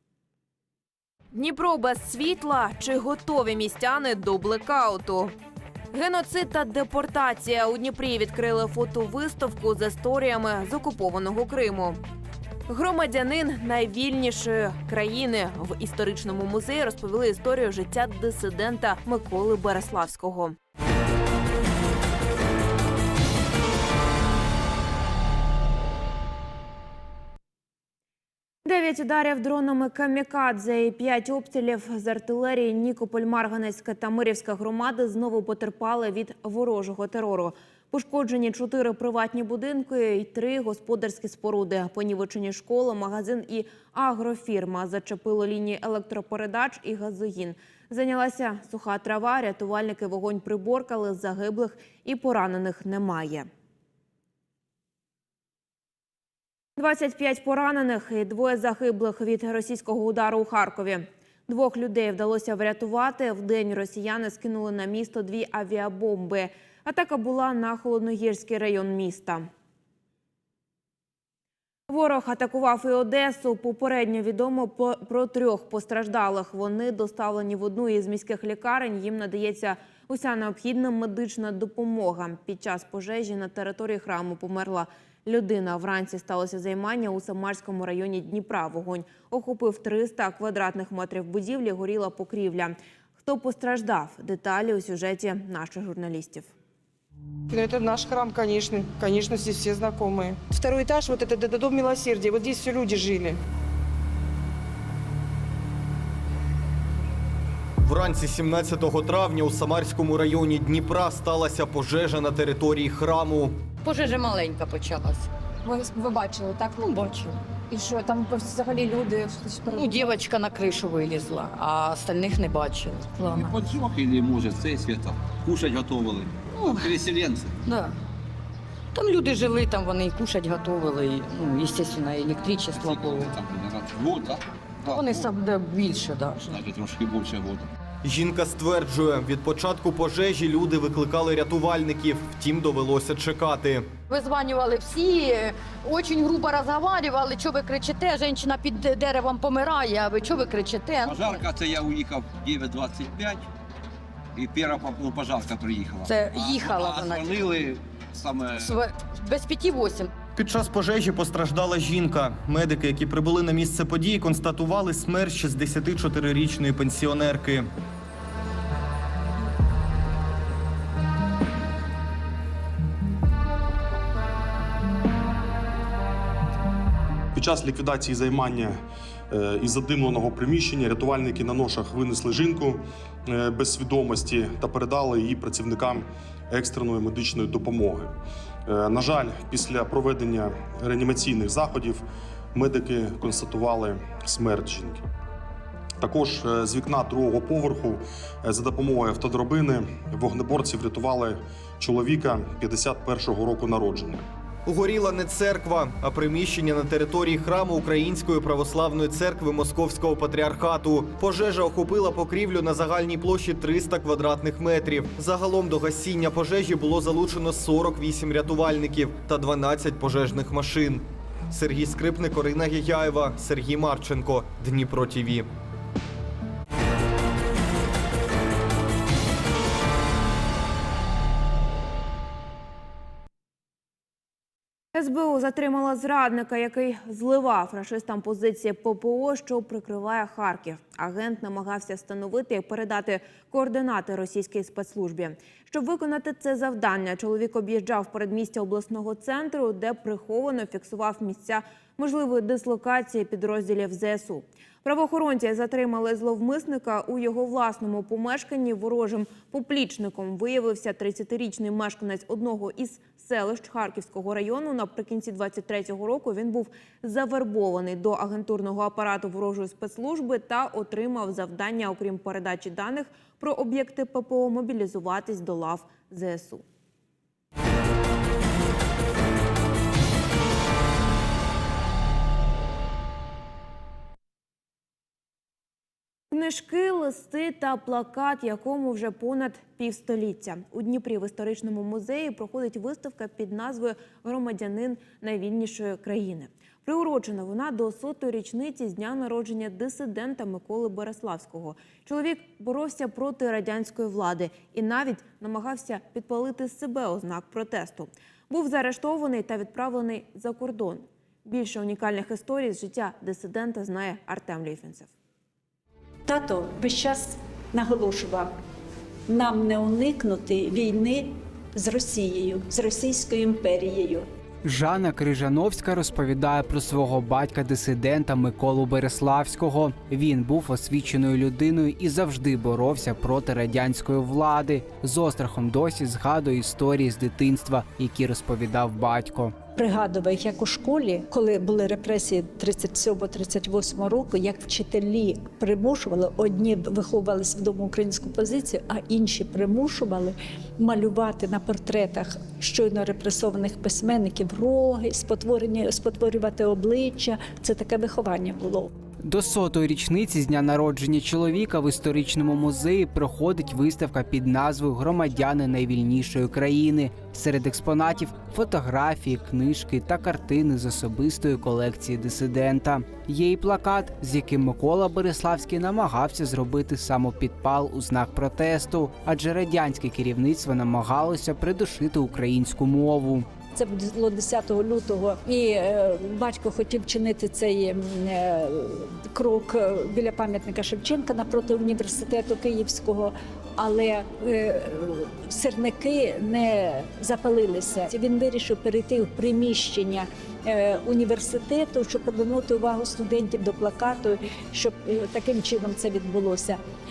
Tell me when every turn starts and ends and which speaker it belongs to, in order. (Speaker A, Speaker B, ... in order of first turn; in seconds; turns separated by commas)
Speaker A: 1.3-5.3, Speaker A: 5.9-12.0, Speaker A: 12.7-20.6, Speaker A: 28.6-53.5, Speaker A: 56.8-69.5, Speaker A: 71.9-96.5, Speaker B: 97.5-103.3, Speaker C: 107.8-113.6, Speaker D: 113.8-115.3, Speaker E: 115.6-116.9, Speaker D: 116.8-117.3, Speaker E: 117.7-120.0, Speaker D: 119.7-123.5, Speaker F: 123.3-127.6, Speaker D: 126.5-126.9, Speaker D: 127.7-128.0, Speaker D: 128.9-133.3, Speaker F: 132.7-135.3, Speaker D: 134.9-136.5, Speaker F: 136.4-137.7, Speaker C: 138.0-143.9, Speaker D: 144.1-151.4, Speaker F: 151.0-153.5, Speaker F: 154.3-158.8, Speaker D: 156.0-157.5, Speaker D: 158.6-160.1, Speaker C: 160.3-167.7, Speaker G: 177.3-178.8, Speaker G: 179.3-188.1, Speaker G: 188.7-195.0, Speaker G: 196.0-204.2, Speaker C: 204.7-225.5, Speaker A: 234.9-276.6, Speaker A: 286.3-315.1, Speaker H: 316.2-318.5, Speaker H: 319.3-324.3, Speaker I: 324.6-339.6, Speaker H: 339.7-358.9, Speaker I: 359.2-383.5, Speaker H: 383.7-406.8